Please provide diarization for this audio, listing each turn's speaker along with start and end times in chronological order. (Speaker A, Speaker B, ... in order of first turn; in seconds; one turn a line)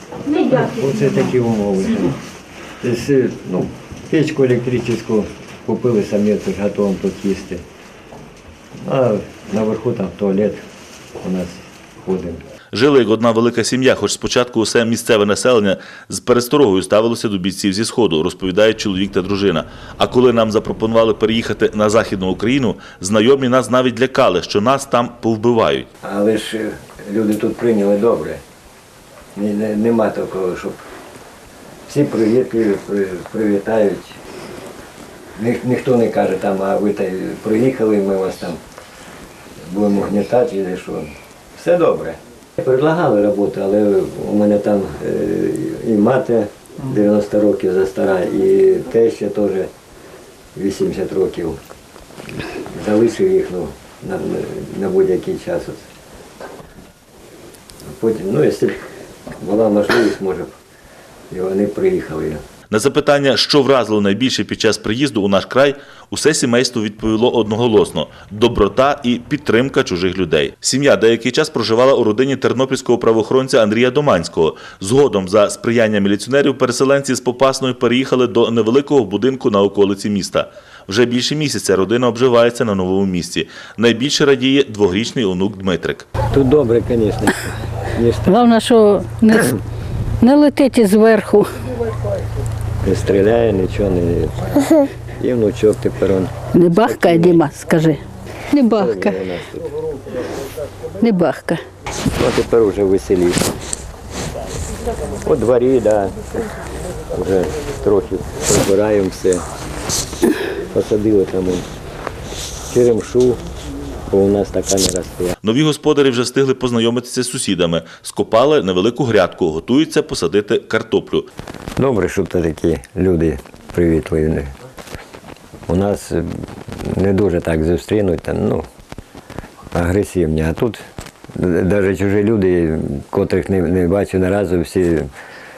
Speaker A: 0.3-2.2
Speaker A: 2.8-7.6
Speaker A: 8.8-10.6
Speaker A: 11.2-12.4
Speaker B: 12.7-25.9
Speaker A: 26.0-28.4
Speaker A: 29.3-30.8
Speaker A: 31.9-34.2
Speaker A: 35.4-38.6
Speaker A: 39.7-49.7
Speaker A: 50.5-51.6
Speaker A: 52.7-55.9
Speaker A: 57.9-58.9
Speaker A: 59.4-60.5
Speaker A: 61.3-62.4
Speaker B: 62.7-86.0
Speaker A: 86.3-88.5
Speaker C: 88.3-89.6
Speaker C: 90.2-91.5
Speaker A: 92.8-97.4
Speaker C: 96.5-99.2
Speaker A: 98.7-99.7
Speaker C: 101.0-101.6
Speaker A: 102.1-103.5
Speaker A: 105.2-106.2
Speaker A: 107.1-109.4
Speaker A: 110.7-111.7
Speaker A: 112.7-113.4
Speaker A: 114.1-115.4
Speaker B: 115.4-121.3
Speaker A: 121.8-124.5
Speaker A: 125.7-126.3
Speaker A: 126.8-128.7
Speaker A: 129.7-130.8
Speaker A: 131.3-135.1